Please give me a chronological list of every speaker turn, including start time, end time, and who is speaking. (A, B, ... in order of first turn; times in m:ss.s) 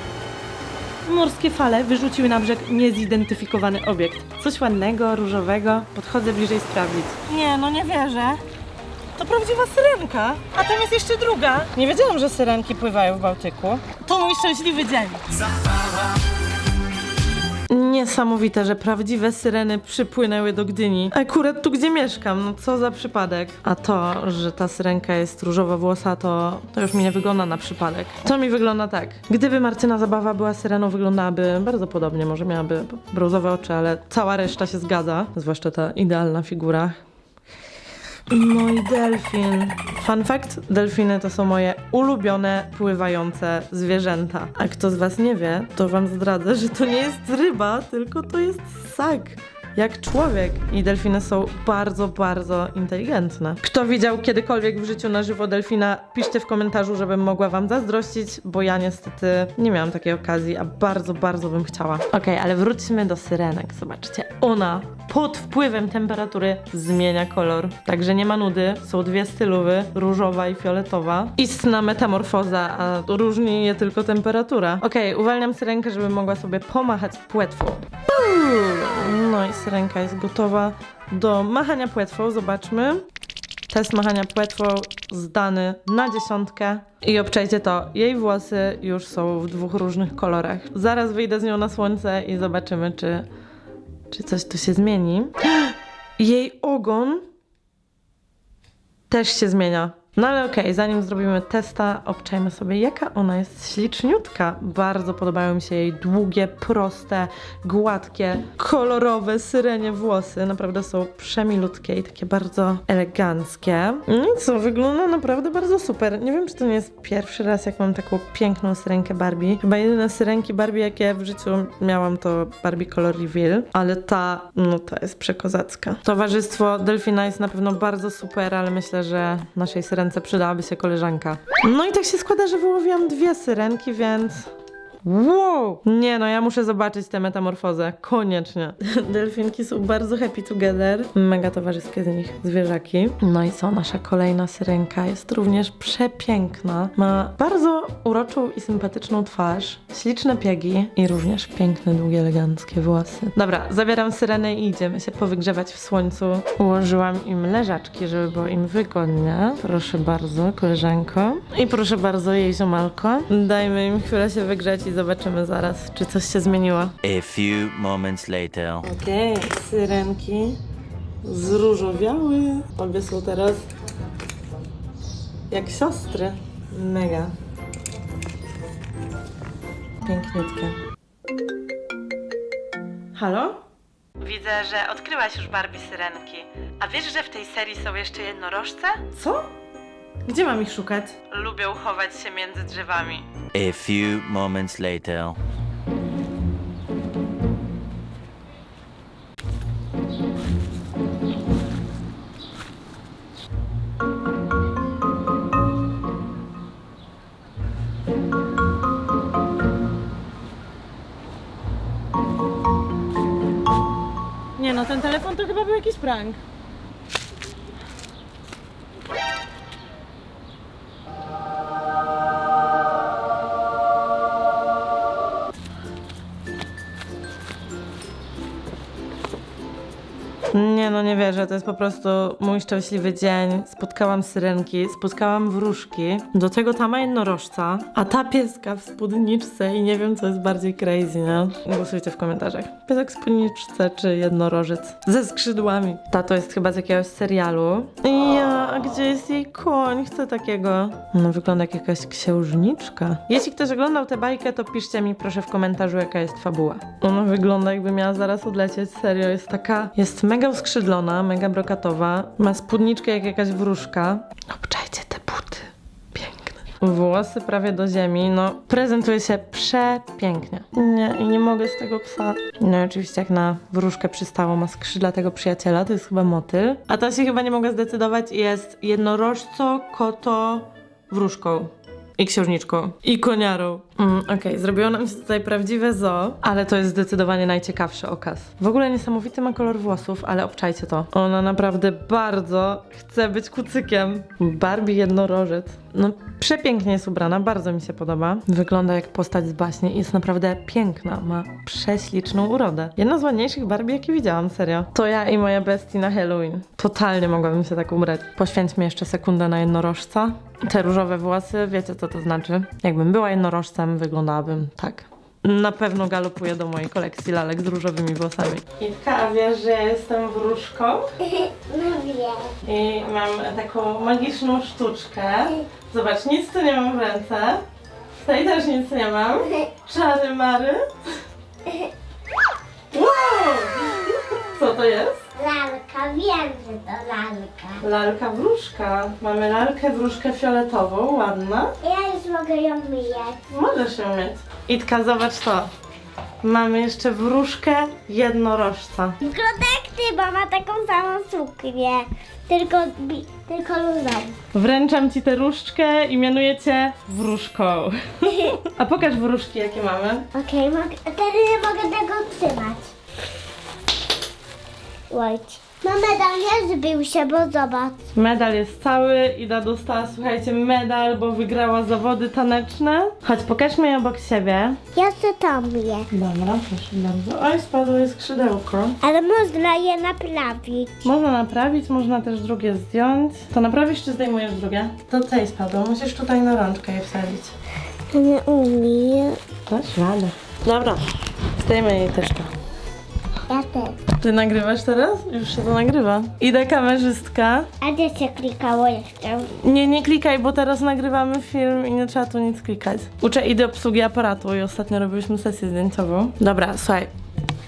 0:01.0-0:08.4 A
0:09.2-0:15.5 A
0:17.7-0:37.0 A
0:38.3-1:23.0 A
1:23.7-1:33.2 A
1:34.1-1:37.2 A
1:39.1-2:14.5 A
2:15.0-2:46.9 A
2:47.0-2:48.8 B
2:48.8-2:50.6 A
2:51.2-2:53.7 A
2:55.5-2:57.3 A
3:00.0-3:00.8 A
3:03.1-3:03.6 A
3:04.2-3:09.5 A
3:10.2-3:13.2 A
3:13.5-3:15.4 B
3:34.6-3:36.4 A
3:50.5-5:21.1 A
5:21.3-5:22.5 C
5:22.6-5:27.6 A
5:28.2-5:30.8 A
5:32.9-5:35.2 A
5:35.4-5:37.8 C
5:37.8-5:41.7 A
5:41.8-5:43.4 C
5:43.5-5:45.7 A
5:46.4-5:49.2 A
5:49.2-5:54.4 C
5:54.5-6:00.2 A
6:00.3-6:02.9 C
6:05.1-6:08.0 C
6:08.1-6:14.8 A
6:14.9-6:16.1 C
6:16.1-6:19.0 A
6:19.0-6:20.9 C
6:21.0-6:27.5 A
6:28.1-6:29.4 C
6:29.7-6:32.5 A
6:33.5-6:34.0 C
6:34.1-6:37.7 A
6:37.8-6:39.5 C
6:39.6-6:47.1 A